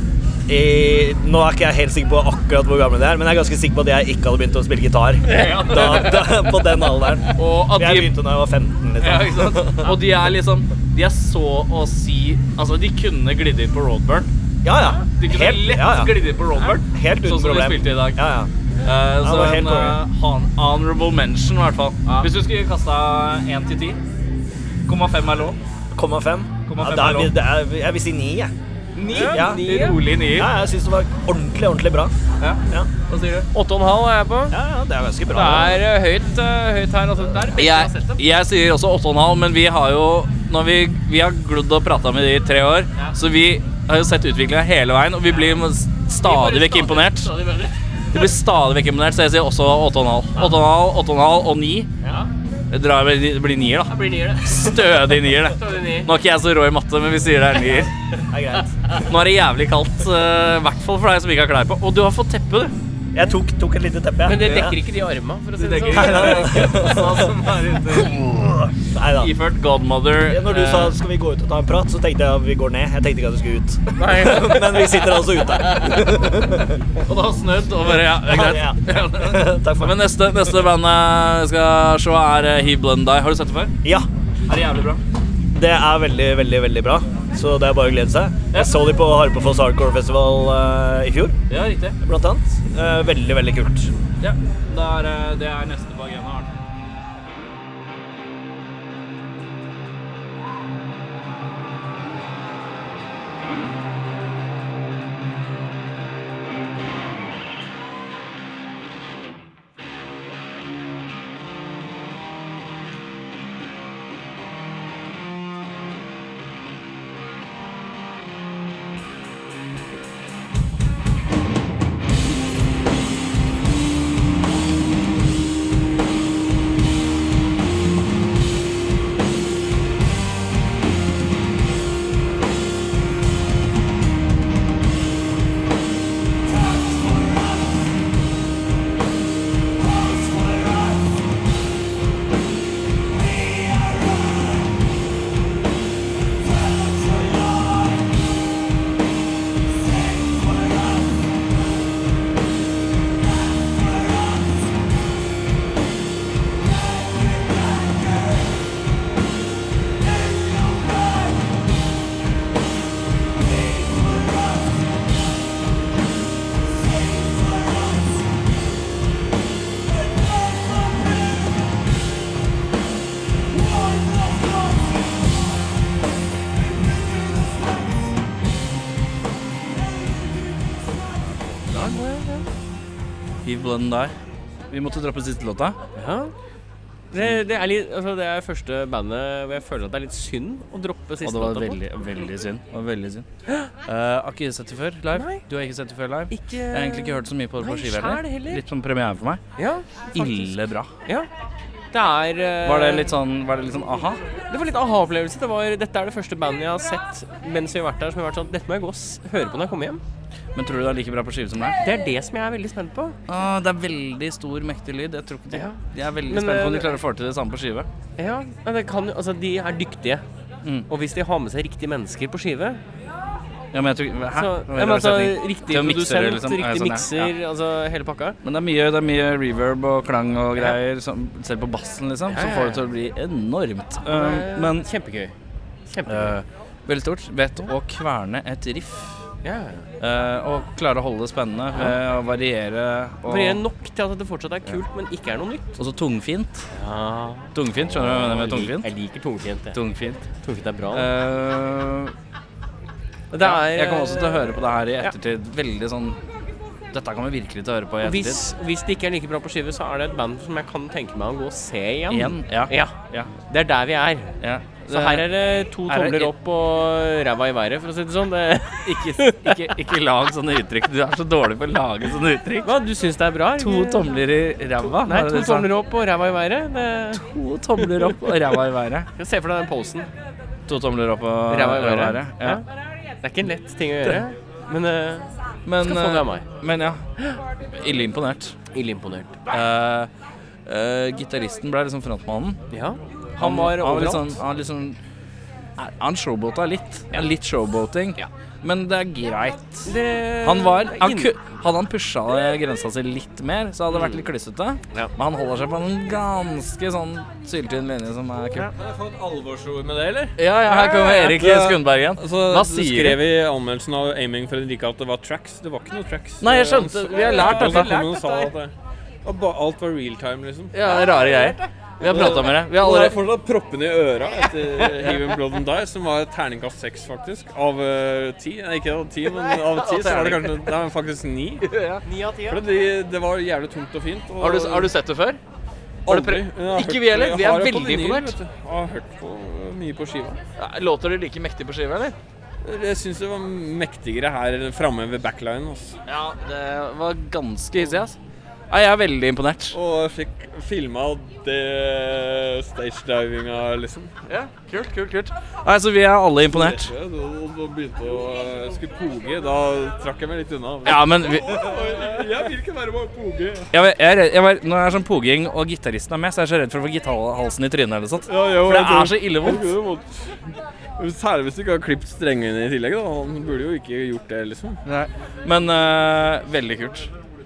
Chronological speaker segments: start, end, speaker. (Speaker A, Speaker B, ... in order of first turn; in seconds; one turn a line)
Speaker A: 0.5-10.0
Speaker B: 5.2-6.4
Speaker B: 7.3-8.1
Speaker B: 9.0-14.3
Speaker A: 14.6-16.1
Speaker B: 15.2-18.2
Speaker A: 16.8-18.5
Speaker B: 18.8-24.0
Speaker A: 19.2-20.0
Speaker B: 24.9-25.6
Speaker A: 25.9-28.5
Speaker B: 26.7-27.3
Speaker B: 28.9-30.5
Speaker C: 29.1-30.0
Speaker A: 29.3-29.6
Speaker A: 30.3-32.1
Speaker B: 32.4-33.5
Speaker C: 33.5-34.6
Speaker A: 34.5-35.8
Speaker C: 35.3-38.2
Speaker B: 37.5-47.3
Speaker C: 46.2-47.8
Speaker B: 48.1-51.9
Speaker B: 52.7-57.9
Speaker C: 53.9-56.1
Speaker A: 58.3-58.7
Speaker B: 59.0-62.7
Speaker A: 63.1-64.8
Speaker C: 64.2-67.0
Speaker B: 65.6-68.2
Speaker A: 65.9-67.3
Speaker A: 67.9-69.3
Speaker B: 69.0-70.9
Speaker A: 70.2-76.8
Speaker C: 74.0-74.9
Speaker B: 77.0-83.8
Speaker A: 78.2-80.0
Speaker B: 84.5-85.0
Speaker A: 85.5-91.4
Speaker B: 91.5-92.0
Speaker A: 92.0-93.9
Speaker B: 94.2-96.5
Speaker C: 181.6-182.4
Speaker B: 183.4-184.1
Speaker B: 184.7-185.8
Speaker C: 185.9-186.3
Speaker C: 187.1-191.8
Speaker B: 191.2-193.2
Speaker B: 193.8-199.4
Speaker C: 195.1-195.4
Speaker C: 196.3-198.6
Speaker C: 199.6-201.3
Speaker B: 200.1-200.9
Speaker C: 201.9-203.1
Speaker B: 202.6-204.2
Speaker C: 204.5-210.0
Speaker B: 210.5-211.8
Speaker C: 211.8-213.2
Speaker B: 213.3-217.9
Speaker C: 215.5-215.8
Speaker C: 216.3-217.0
Speaker C: 218.2-220.2
Speaker C: 220.9-222.8
Speaker B: 223.7-227.3
Speaker C: 224.3-228.4
Speaker B: 228.4-234.9
Speaker C: 232.3-232.8
Speaker C: 234.1-235.3
Speaker C: 235.9-236.3
Speaker B: 236.1-239.2
Speaker C: 239.4-239.9
Speaker B: 240.0-243.6
Speaker C: 243.3-245.8
Speaker B: 245.8-246.6
Speaker C: 246.7-249.8
Speaker B: 247.5-248.9
Speaker B: 249.7-250.3
Speaker C: 250.4-251.1
Speaker B: 250.9-252.1
Speaker C: 253.3-255.1
Speaker B: 253.4-256.2
Speaker B: 256.9-258.4
Speaker C: 258.0-262.9
Speaker B: 262.1-263.3
Speaker C: 263.5-264.4
Speaker B: 264.4-265.2
Speaker C: 264.9-269.7
Speaker B: 265.9-266.3
Speaker B: 268.8-272.7
Speaker C: 272.6-274.2
Speaker B: 273.6-275.7
Speaker C: 274.8-277.2
Speaker B: 277.1-279.1
Speaker C: 277.8-278.3
Speaker C: 279.1-280.1
Speaker B: 280.7-282.6
Speaker C: 281.5-282.6
Speaker C: 283.2-285.3
Speaker B: 285.6-287.0
Speaker C: 285.8-286.4
Speaker B: 287.8-288.6
Speaker C: 288.7-289.4
Speaker B: 289.5-290.1
Speaker B: 290.6-292.6
Speaker C: 292.7-294.4
Speaker B: 293.4-295.0
Speaker B: 295.8-308.7
Speaker C: 299.9-301.3
Speaker C: 303.9-304.2
Speaker D: 308.7-318.7
Speaker B: 310.4-313.2
Speaker B: 316.4-318.1
Speaker C: 317.2-318.5
Speaker D: 319.2-321.0
Speaker B: 320.7-323.2
Speaker D: 322.0-331.7
Speaker B: 329.7-330.5
Speaker B: 331.6-332.0
Speaker C: 332.0-332.6
Speaker D: 332.4-334.9
Speaker B: 334.4-335.4
Speaker D: 336.1-340.4
Speaker B: 336.1-338.4
Speaker B: 340.6-342.1
Speaker D: 342.6-346.0
Speaker B: 346.1-348.1
Speaker B: 348.7-349.8
Speaker D: 349.7-354.1
Speaker B: 354.3-356.9
Speaker D: 356.5-363.7
Speaker B: 360.8-361.7
Speaker B: 363.7-369.7
Speaker D: 368.3-370.4
Speaker D: 371.0-374.8
Speaker B: 374.8-377.1